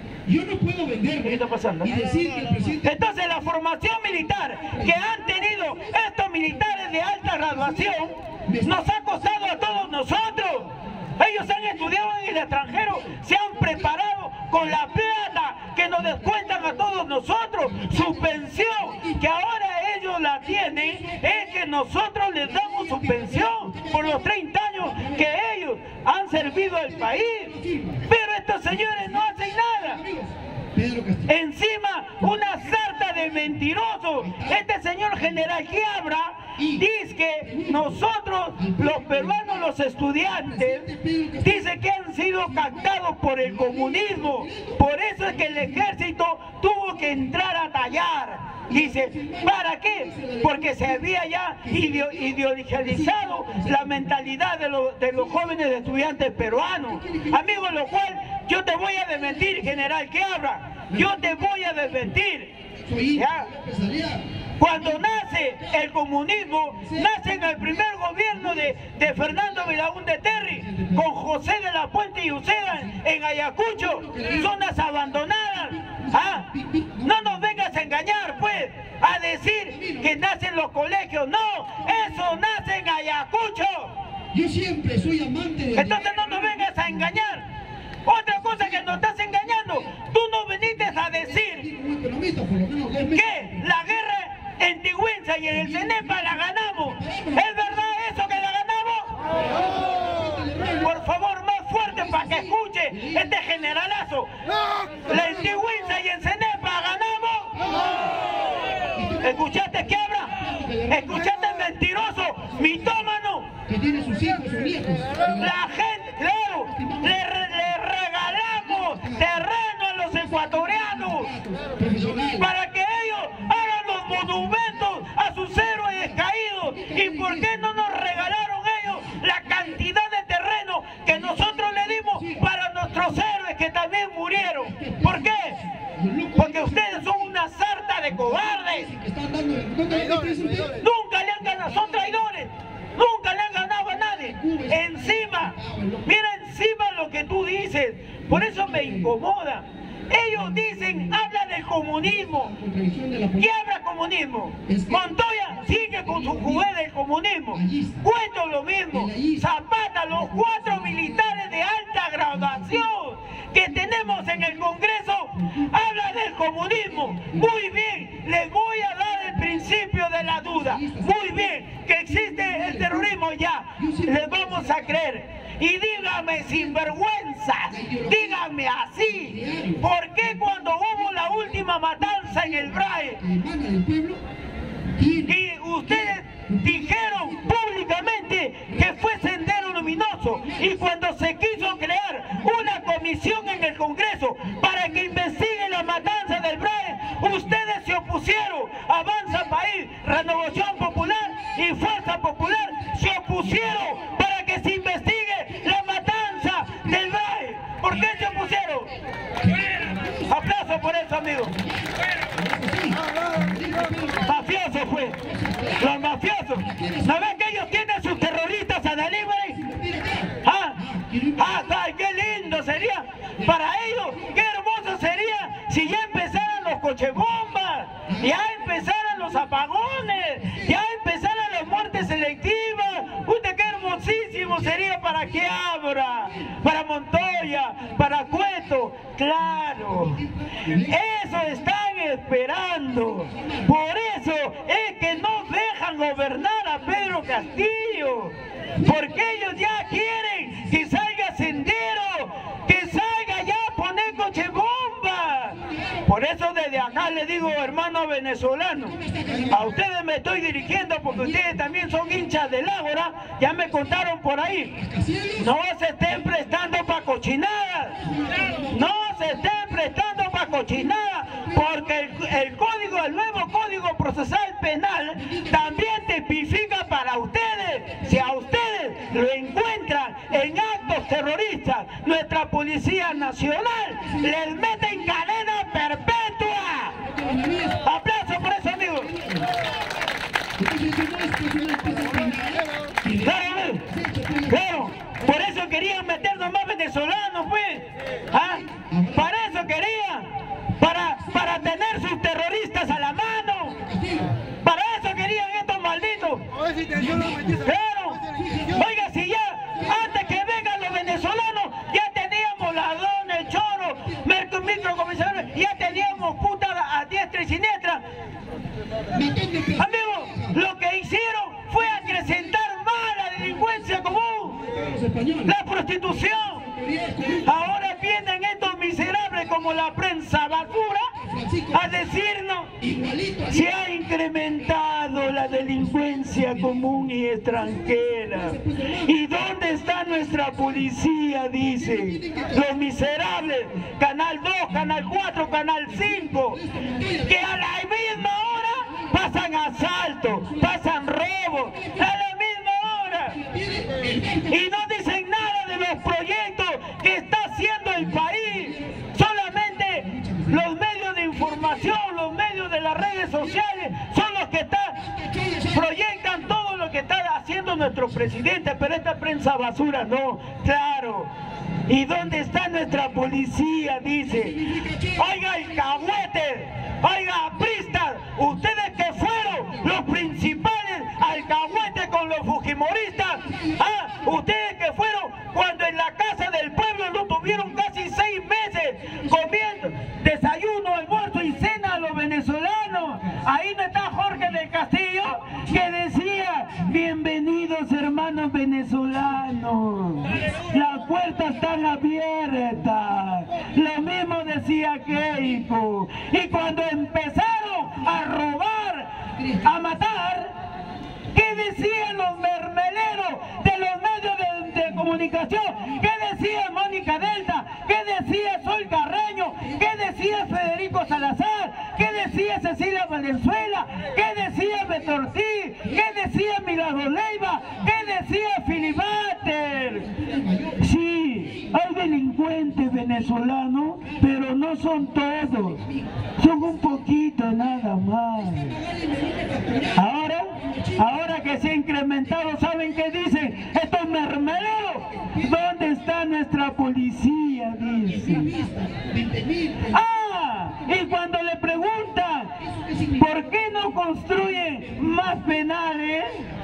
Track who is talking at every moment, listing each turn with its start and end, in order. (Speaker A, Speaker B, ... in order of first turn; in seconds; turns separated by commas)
Speaker A: 0.3-3.0, Speaker B: 1.2-1.9, Speaker B: 2.8-27.5, Speaker A: 7.5-8.8, Speaker A: 16.0-16.7, Speaker A: 17.6-19.2, Speaker A: 20.4-21.5, Speaker A: 22.4-25.3, Speaker A: 26.4-28.1, Speaker B: 28.0-30.0, Speaker A: 28.7-31.3, Speaker B: 31.3-40.9, Speaker A: 34.2-34.6, Speaker A: 36.6-36.9, Speaker A: 37.4-38.0, Speaker A: 38.6-39.7, Speaker A: 40.3-41.8, Speaker B: 41.4-62.5, Speaker A: 42.4-42.9, Speaker A: 43.4-45.9, Speaker A: 48.7-51.1, Speaker A: 51.6-54.3, Speaker A: 55.2-56.0, Speaker A: 56.8-57.9, Speaker A: 59.2-59.9, Speaker A: 60.9-61.5, Speaker A: 62.8-64.2, Speaker B: 63.1-63.5, Speaker B: 64.6-76.5, Speaker A: 64.8-65.1, Speaker A: 66.8-69.7, Speaker A: 70.4-71.1, Speaker A: 72.7-73.0, Speaker A: 73.7-74.6, Speaker A: 75.5-77.7, Speaker B: 77.0-83.9, Speaker A: 79.7-80.2, Speaker A: 81.8-82.3, Speaker A: 84.3-87.3, Speaker B: 85.8-87.5, Speaker B: 88.1-91.7, Speaker A: 88.3-89.8, Speaker A: 90.6-93.9, Speaker B: 93.1-99.2, Speaker A: 95.5-97.9, Speaker A: 99.4-101.0, Speaker B: 100.8-104.3, Speaker A: 101.8-103.3, Speaker B: 105.0-108.0, Speaker A: 105.1-105.5, Speaker A: 108.9-109.6, Speaker B: 109.2-113.5, Speaker A: 110.3-111.4, Speaker A: 112.5-113.0, Speaker A: 113.7-115.5, Speaker B: 115.4-121.3, Speaker A: 116.7-117.2, Speaker A: 118.6-119.4, Speaker A: 120.1-122.5, Speaker B: 122.4-135.6, Speaker A: 124.1-124.9, Speaker A: 125.7-126.2, Speaker A: 126.7-127.8, Speaker A: 129.0-129.8, Speaker A: 131.1-132.5, Speaker A: 134.6-137.3, Speaker B: 136.4-138.9, Speaker A: 138.1-140.8, Speaker B: 140.8-152.5, Speaker A: 141.4-142.1, Speaker A: 144.1-146.1, Speaker A: 148.3-149.1, Speaker A: 150.3-151.2, Speaker A: 152.0-153.5, Speaker B: 153.4-183.2, Speaker A: 154.6-156.7, Speaker A: 157.5-158.0, Speaker A: 158.9-159.5, Speaker A: 160.1-161.5, Speaker A: 162.3-162.9, Speaker A: 163.6-164.8, Speaker A: 165.4-165.7, Speaker A: 166.9-167.5, Speaker A: 170.2-171.5, Speaker A: 172.0-173.1, Speaker A: 173.8-175.0, Speaker A: 176.5-176.8, Speaker A: 177.7-178.5, Speaker A: 179.1-184.2, Speaker A: 184.9-187.5, Speaker B: 185.3-208.9, Speaker A: 188.7-189.0, Speaker A: 190.2-190.9, Speaker A: 194.6-195.2, Speaker A: 200.2-201.6, Speaker A: 202.4-204.0, Speaker A: 207.9-208.3, Speaker A: 209.4-210.4, Speaker B: 210.3-211.6, Speaker A: 211.5-214.3, Speaker B: 214.2-215.2, Speaker A: 215.2-215.9, Speaker B: 215.8-219.6, Speaker A: 216.6-217.4, Speaker A: 219.5-221.7, Speaker B: 220.4-220.8, Speaker B: 221.4-240.2, Speaker A: 228.1-228.5, Speaker A: 230.4-230.8, Speaker A: 234.3-235.5, Speaker A: 236.2-236.6, Speaker A: 239.9-241.0, Speaker B: 240.8-264.7, Speaker A: 243.0-243.7, Speaker A: 248.7-249.6, Speaker A: 250.5-250.9, Speaker A: 255.6-256.1, Speaker A: 258.9-259.6, Speaker A: 261.1-261.6, Speaker A: 264.7-265.5, Speaker B: 265.4-268.0, Speaker A: 268.0-268.9, Speaker B: 268.7-287.0, Speaker A: 270.6-271.9, Speaker A: 275.2-275.8, Speaker A: 284.0-285.2, Speaker A: 287.0-287.8, Speaker B: 287.8-289.1, Speaker A: 289.0-289.5, Speaker A: 290.6-294.8, Speaker B: 293.2-293.9, Speaker B: 294.5-298.6, Speaker A: 298.4-299.3, Speaker B: 299.1-300.3, Speaker B: 300.8-303.8, Speaker A: 301.2-301.9, Speaker A: 303.6-304.4, Speaker B: 304.6-306.4, Speaker A: 306.9-307.6, Speaker B: 307.5-318.0, Speaker A: 308.3-308.9, Speaker A: 309.8-310.1, Speaker A: 314.8-316.2, Speaker A: 319.1-320.6, Speaker B: 319.8-324.6, Speaker A: 321.8-322.6, Speaker A: 323.4-325.6, Speaker B: 325.4-326.6, Speaker A: 326.1-327.7, Speaker B: 327.4-331.1, Speaker A: 331.1-332.2, Speaker B: 331.7-332.7, Speaker A: 332.8-333.7, Speaker B: 333.5-346.6, Speaker A: 335.1-339.1, Speaker A: 341.7-343.0, Speaker A: 345.9-347.5, Speaker B: 347.3-353.4, Speaker A: 350.3-350.9, Speaker A: 351.8-352.1, Speaker A: 353.3-354.7, Speaker B: 354.5-365.0, Speaker A: 358.0-359.1, Speaker A: 359.9-360.7, Speaker A: 361.3-361.9, Speaker A: 363.2-363.9, Speaker A: 365.0-365.9, Speaker B: 365.7-371.3, Speaker B: 371.9-374.6, Speaker A: 374.2-375.4, Speaker B: 375.2-410.5, Speaker A: 383.4-383.9, Speaker A: 409.4-409.8, Speaker B: 411.3-430.1, Speaker A: 429.9-431.8, Speaker B: 430.8-435.8, Speaker A: 435.2-436.3, Speaker B: 436.4-438.8, Speaker A: 438.4-441.3, Speaker B: 439.9-448.5, Speaker A: 445.0-445.6, Speaker A: 448.1-450.0, Speaker B: 449.9-452.5, Speaker A: 452.6-453.5, Speaker B: 453.2-456.4